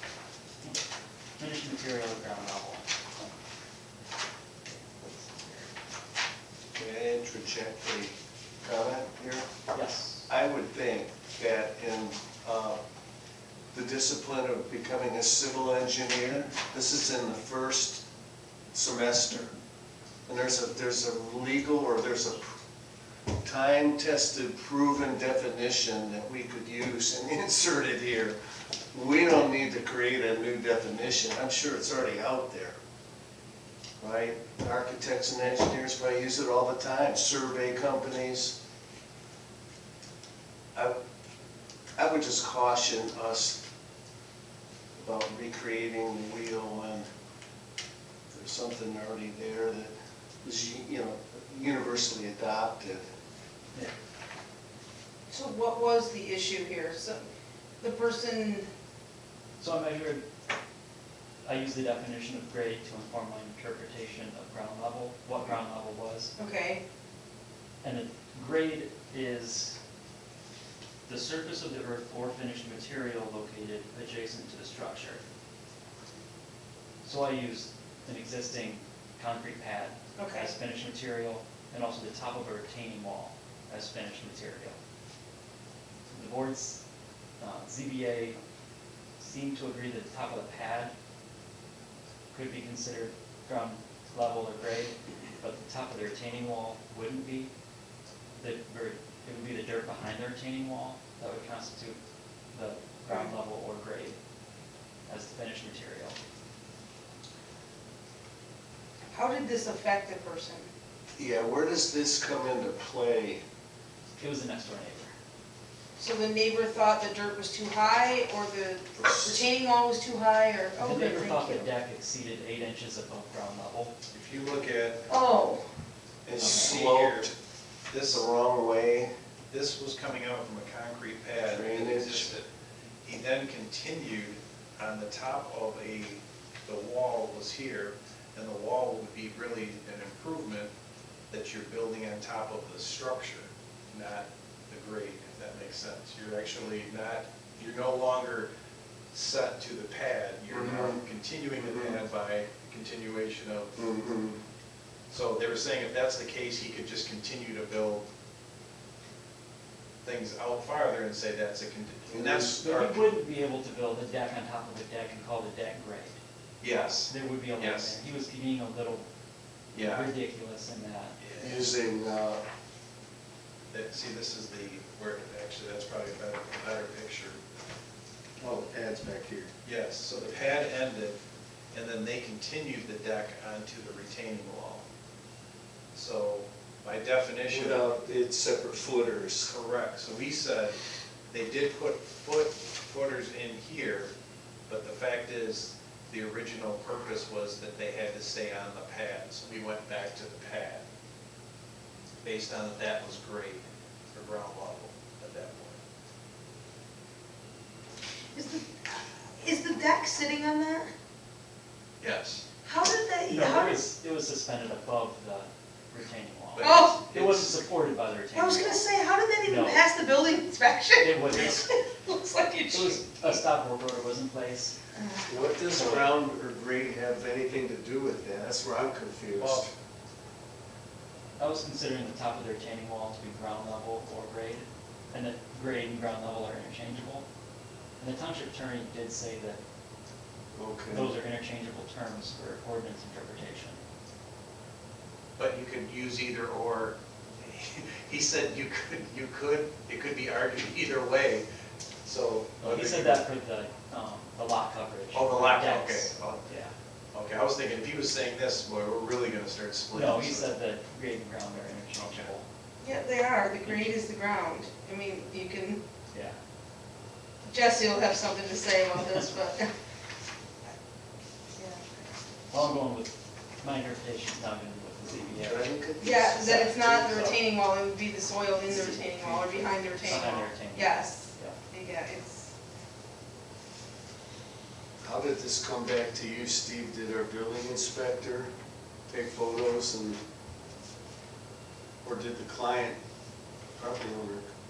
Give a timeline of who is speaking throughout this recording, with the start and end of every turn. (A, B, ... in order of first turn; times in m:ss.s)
0:01.4-0:02.9 A
0:04.6-0:05.7 A
0:06.7-0:09.5 B
0:09.7-0:10.3 A
0:10.3-0:12.8 B
0:13.7-0:18.0 B
0:18.7-0:19.5 B
0:20.3-0:22.5 B
0:23.4-0:28.3 B
0:28.9-0:32.8 B
0:34.0-0:38.6 B
0:42.0-0:43.6 B
0:45.0-0:47.0 B
0:48.3-0:53.0 B
0:55.3-0:57.3 C
0:57.8-0:58.7 C
0:59.6-1:00.2 A
1:01.4-1:06.3 A
1:06.4-1:06.8 C
1:07.8-1:09.8 A
1:11.0-1:15.2 A
1:17.0-1:24.8 A
1:20.2-1:20.5 C
1:26.1-1:26.8 A
1:27.4-1:28.4 A
1:29.2-1:30.9 A
1:32.3-1:37.5 A
1:38.4-1:42.0 A
1:42.5-1:44.2 A
1:43.1-1:43.3 C
1:45.1-1:46.2 A
1:49.1-1:50.7 C
1:51.2-1:53.4 B
1:54.2-1:55.1 A
1:56.0-2:01.7 C
2:00.8-2:03.9 A
2:04.1-2:05.0 D
2:05.1-2:05.6 C
2:06.3-2:07.3 D
2:06.3-2:07.3 B
2:06.4-2:06.7 C
2:07.9-2:08.2 D
2:08.1-2:09.1 B
2:09.5-2:12.5 D
2:11.5-2:12.3 B
2:13.0-2:20.7 D
2:21.3-2:28.5 D
2:29.1-2:33.7 D
2:30.5-2:31.0 B
2:31.6-2:32.0 B
2:33.8-2:34.4 B
2:35.1-2:38.0 D
2:40.0-2:43.1 D
2:42.1-2:42.6 B
2:42.6-2:46.2 A
2:46.6-2:48.0 D
2:47.1-2:49.1 A
2:49.7-2:50.1 D
2:49.8-2:51.2 A
2:51.2-2:51.7 D
2:51.4-2:52.4 B
2:53.7-2:57.4 D
2:58.4-2:59.5 B
2:59.6-3:01.2 D
3:01.7-3:04.8 D
3:05.9-3:07.8 D
3:07.5-3:09.5 B
3:09.4-3:10.8 D
3:11.3-3:14.1 D
3:14.7-3:20.8 D
3:22.2-3:25.8 D
3:28.3-3:30.9 C
3:32.0-3:32.5 D
3:32.6-3:33.8 C
3:33.3-3:38.8 A
3:36.6-3:37.6 D
3:36.6-3:37.0 C
3:38.3-3:43.4 C
3:39.4-3:39.8 A
3:41.0-3:41.7 A
3:42.7-3:44.8 A
3:45.0-3:45.3 C
3:45.3-3:49.7 B
3:49.4-3:49.7 D
3:51.4-3:57.3 A
3:58.0-3:59.6 A
4:00.5-4:01.1 B
4:00.9-4:03.8 A
4:05.4-4:11.4 D
4:12.0-4:13.3 D
4:12.6-4:16.7 A
4:15.1-4:16.5 D
4:17.1-4:20.5 D
4:19.9-4:22.4 A
4:22.0-4:22.3 D
4:22.8-4:25.8 C
4:23.6-4:24.0 A
4:26.1-4:26.4 A
4:27.4-4:29.7 C
4:31.6-4:32.1 C
4:32.5-4:35.7 A
4:35.3-4:36.7 B
4:36.0-4:42.5 C
4:36.4-4:37.4 A
4:38.7-4:41.6 A
4:45.0-4:48.5 B
4:49.1-4:50.2 B
4:52.0-4:53.0 B
4:53.8-4:54.5 B